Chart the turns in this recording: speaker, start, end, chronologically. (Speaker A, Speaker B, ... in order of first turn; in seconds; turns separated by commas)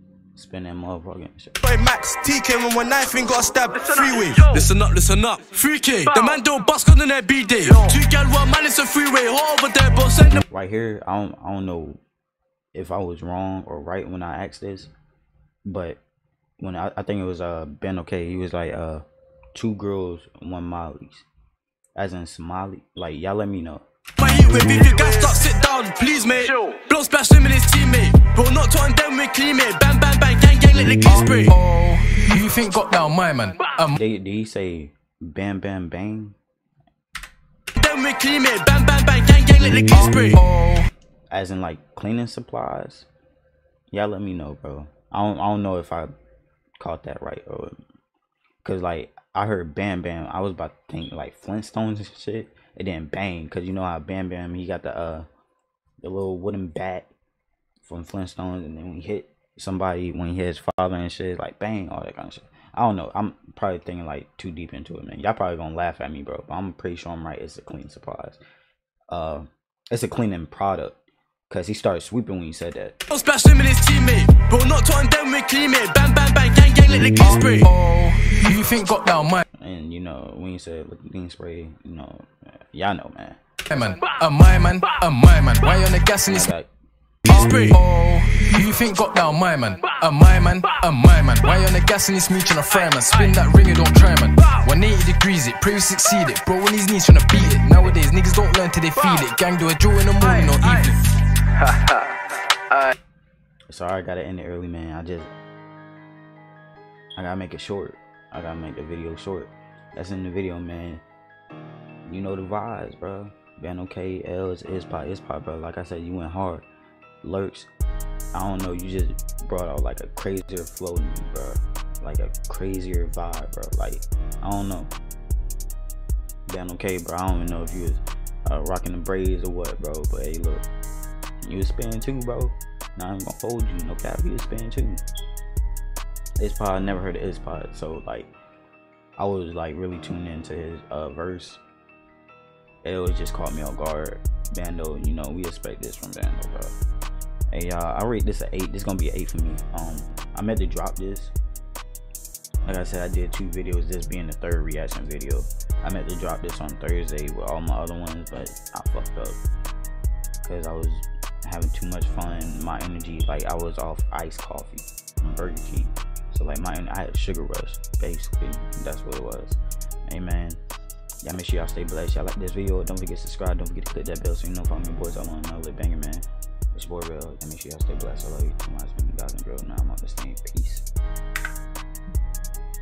Speaker A: 0.3-1.5, Speaker B: 1.6-4.6, Speaker C: 3.7-10.4, Speaker A: 10.4-12.0, Speaker A: 12.7-14.9, Speaker A: 15.6-16.0, Speaker A: 16.6-19.0, Speaker A: 19.5-21.2, Speaker A: 21.9-23.8, Speaker C: 24.2-31.5, Speaker D: 31.4-34.0, Speaker A: 33.9-36.4, Speaker C: 37.8-40.4, Speaker D: 40.3-40.9, Speaker A: 41.3-43.1, Speaker A: 43.9-46.1, Speaker A: 46.8-47.8, Speaker A: 48.6-55.3, Speaker A: 56.0-57.1, Speaker A: 57.8-68.4, Speaker A: 69.1-73.0, Speaker C: 73.1-77.7, Speaker D: 77.5-79.4, Speaker A: 79.6-83.4, Speaker D: 83.7-86.5, Speaker A: 86.3-86.7, Speaker D: 87.3-101.0, Speaker C: 87.3-87.7, Speaker D: 101.7-102.0, Speaker A: 103.7-105.3, Speaker A: 107.2-111.0, Speaker A: 112.0-116.7, Speaker A: 117.2-117.7, Speaker A: 118.3-124.9, Speaker A: 126.5-130.7, Speaker A: 131.4-135.0, Speaker A: 136.4-138.3, Speaker A: 139.2-141.6, Speaker A: 142.8-146.7, Speaker A: 147.5-151.3, Speaker A: 152.6-159.4, Speaker A: 160.4-170.6, Speaker A: 171.2-180.8